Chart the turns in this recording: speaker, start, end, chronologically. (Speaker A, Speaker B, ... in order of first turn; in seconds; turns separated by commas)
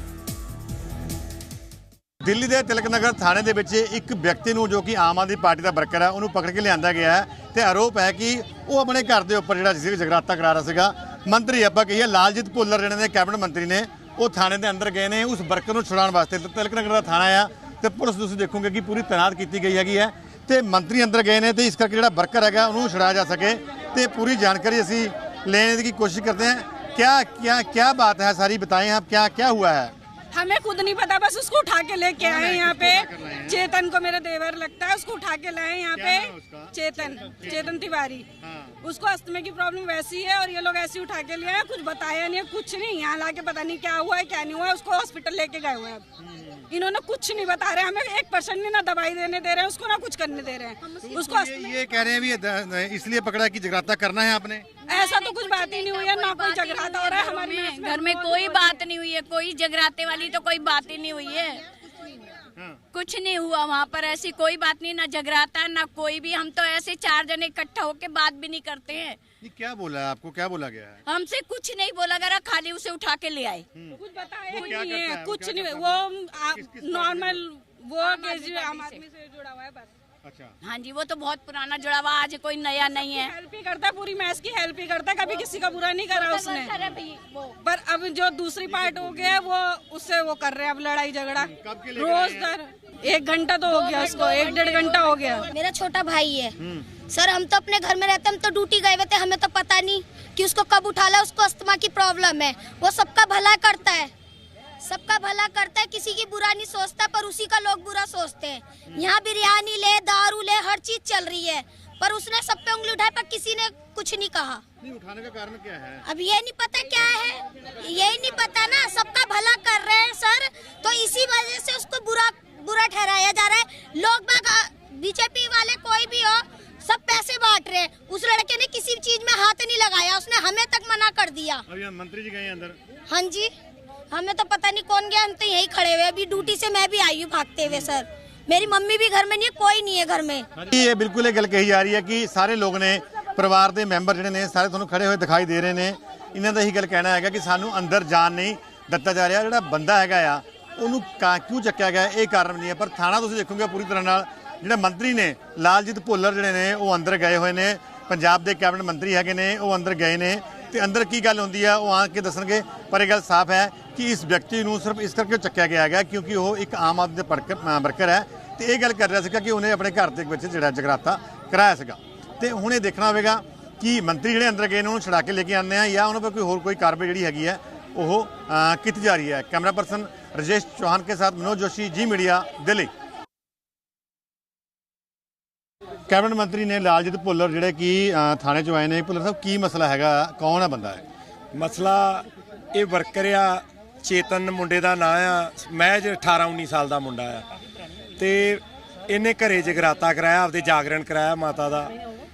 Speaker A: 2.2-29.9, Speaker B: 30.3-38.3, Speaker A: 32.2-33.6, Speaker A: 35.9-36.7, Speaker A: 37.3-37.7, Speaker A: 38.4-38.8, Speaker B: 38.8-46.0, Speaker A: 46.2-46.7, Speaker B: 46.7-51.5, Speaker A: 51.0-54.7, Speaker B: 54.9-58.9, Speaker C: 54.9-61.6, Speaker C: 62.9-69.2, Speaker A: 69.4-71.0, Speaker C: 71.1-73.6, Speaker A: 73.7-77.4, Speaker B: 74.0-79.9, Speaker C: 78.0-79.0, Speaker A: 80.2-80.5, Speaker C: 80.6-83.3, Speaker B: 82.8-86.8, Speaker C: 86.1-87.5, Speaker B: 87.6-95.5, Speaker A: 88.7-89.4, Speaker A: 91.3-92.5, Speaker C: 93.7-95.3, Speaker D: 95.4-96.5, Speaker A: 96.6-96.9, Speaker D: 97.1-104.1, Speaker D: 104.8-114.6, Speaker A: 114.8-116.0, Speaker D: 116.0-131.6, Speaker A: 131.7-132.8, Speaker D: 133.1-133.5, Speaker D: 134.1-140.5, Speaker A: 137.6-137.9, Speaker A: 140.5-182.9, Speaker A: 186.1-191.0, Speaker E: 191.5-197.5, Speaker E: 198.2-201.9